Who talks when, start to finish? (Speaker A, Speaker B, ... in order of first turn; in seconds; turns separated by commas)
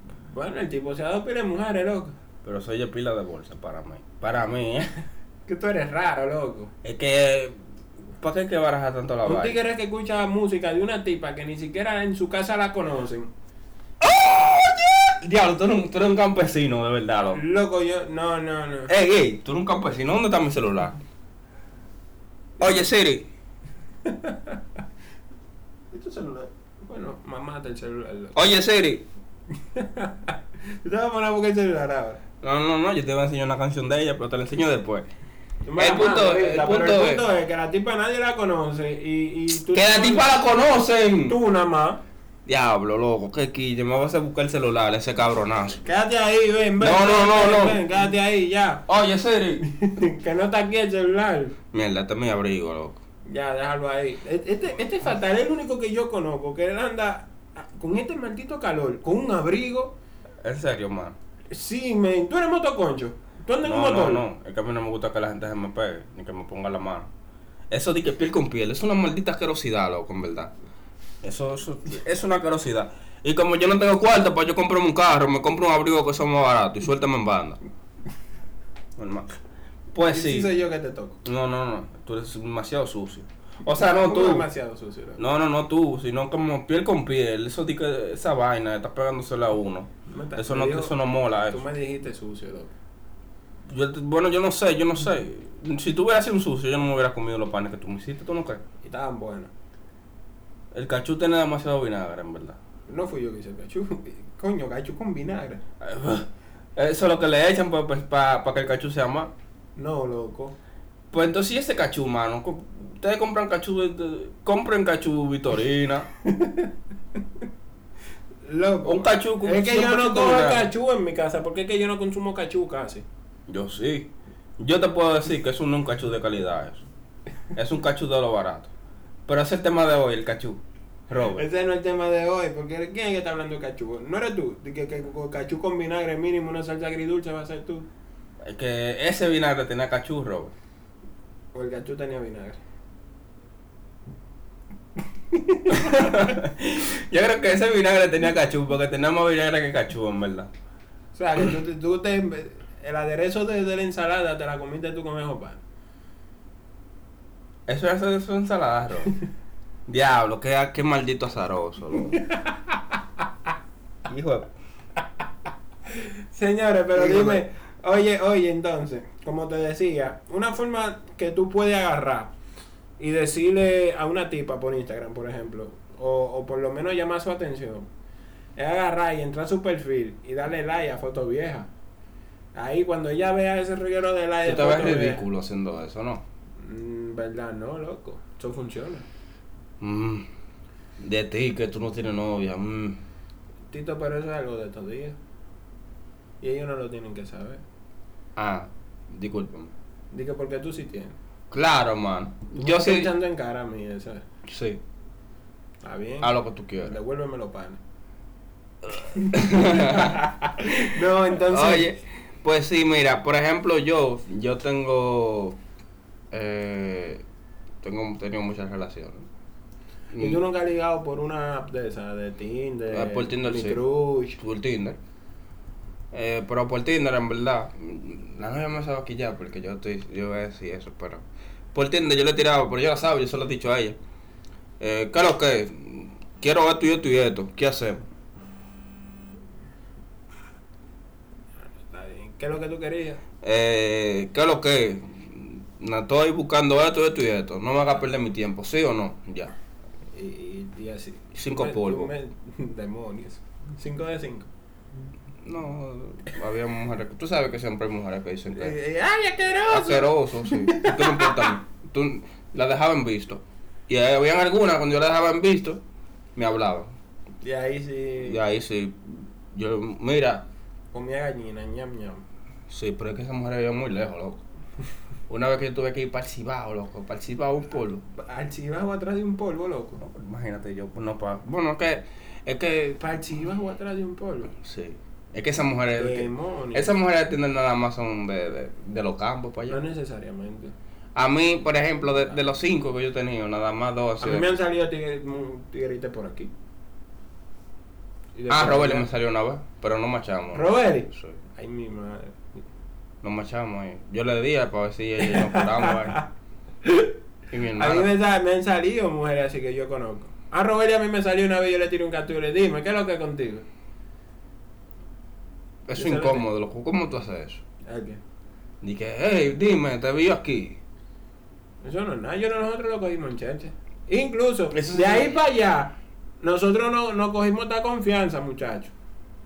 Speaker A: 0.3-2.1, Speaker B: 2.4-4.9, Speaker A: 5.5-6.7, Speaker B: 6.8-7.5, Speaker B: 8.2-9.6, Speaker A: 9.2-13.3, Speaker B: 14.0-17.4, Speaker A: 17.3-18.9, Speaker B: 18.9-21.0, Speaker B: 22.6-23.2, Speaker A: 24.0-24.6, Speaker A: 25.9-28.4, Speaker B: 28.3-29.0, Speaker A: 29.6-32.2, Speaker B: 32.4-35.1, Speaker A: 35.6-40.3, Speaker B: 35.8-37.3, Speaker B: 39.7-41.4, Speaker A: 41.3-42.0, Speaker B: 42.5-45.8, Speaker A: 45.8-48.8, Speaker B: 46.8-47.9, Speaker B: 48.9-49.6, Speaker A: 49.6-51.5, Speaker B: 51.7-53.0, Speaker A: 53.3-59.9, Speaker B: 60.4-61.1, Speaker A: 61.5-64.2, Speaker B: 63.6-67.1, Speaker B: 67.7-70.5, Speaker B: 71.2-77.6, Speaker B: 79.0-79.4, Speaker B: 79.9-80.5, Speaker A: 80.1-81.2, Speaker B: 81.2-84.5, Speaker A: 83.8-85.2, Speaker B: 85.2-91.6, Speaker A: 90.1-91.0, Speaker A: 91.5-92.7, Speaker B: 93.7-98.6, Speaker A: 98.8-99.5, Speaker B: 100.7-102.6, Speaker A: 102.9-105.6, Speaker B: 105.8-109.3, Speaker A: 109.8-110.5, Speaker B: 111.1-116.1, Speaker A: 116.2-116.7, Speaker A: 118.5-123.0, Speaker B: 118.8-120.7, Speaker B: 123.5-126.8, Speaker B: 127.5-128.7, Speaker B: 129.3-131.4, Speaker A: 131.2-137.9, Speaker B: 138.4-140.5, Speaker A: 141.5-142.6, Speaker A: 145.3-146.3, Speaker B: 145.7-150.5, Speaker A: 151.1-155.6, Speaker B: 157.7-159.1, Speaker B: 159.9-162.2, Speaker A: 162.2-162.9, Speaker B: 164.1-164.5, Speaker A: 165.9-172.3, Speaker B: 166.9-167.4, Speaker A: 173.0-177.9, Speaker A: 178.6-181.7, Speaker A: 182.5-185.2, Speaker B: 184.4-186.2, Speaker A: 186.6-189.1, Speaker B: 189.8-190.3, Speaker B: 191.0-193.0, Speaker A: 193.7-195.2, Speaker A: 196.4-197.6, Speaker B: 198.4-199.7, Speaker A: 200.1-201.2, Speaker B: 201.5-203.1, Speaker A: 202.6-204.2, Speaker B: 204.4-204.8, Speaker A: 205.8-207.8, Speaker B: 206.2-206.9, Speaker B: 208.9-215.6, Speaker A: 209.0-211.9, Speaker B: 216.3-217.2, Speaker B: 217.8-219.3, Speaker B: 220.1-220.4, Speaker A: 220.2-224.4, Speaker B: 222.9-223.8, Speaker B: 224.4-225.0, Speaker B: 226.1-234.0, Speaker B: 234.8-238.0, Speaker A: 241.7-243.2, Speaker B: 243.4-249.5, Speaker A: 250.1-254.5, Speaker B: 251.3-252.1, Speaker B: 255.4-258.7, Speaker A: 258.5-261.6, Speaker B: 259.7-265.8, Speaker B: 266.4-266.9, Speaker A: 267.4-268.4, Speaker B: 268.2-270.5, Speaker A: 270.9-272.2, Speaker B: 272.7-274.4, Speaker B: 275.3-278.0, Speaker A: 278.1-280.0, Speaker B: 280.0-283.0, Speaker A: 283.0-284.5, Speaker B: 284.5-289.8, Speaker A: 285.9-286.9, Speaker A: 289.7-290.7, Speaker B: 291.1-294.5, Speaker A: 294.2-296.5, Speaker A: 298.4-299.1, Speaker B: 298.5-301.4, Speaker A: 300.5-302.4, Speaker B: 303.2-306.2, Speaker A: 305.2-306.3, Speaker A: 306.8-307.1, Speaker B: 307.5-308.1, Speaker A: 307.7-313.6, Speaker B: 315.9-317.6, Speaker A: 315.9-316.4, Speaker A: 317.9-318.2, Speaker B: 318.8-320.8, Speaker A: 321.8-328.9, Speaker B: 324.7-325.4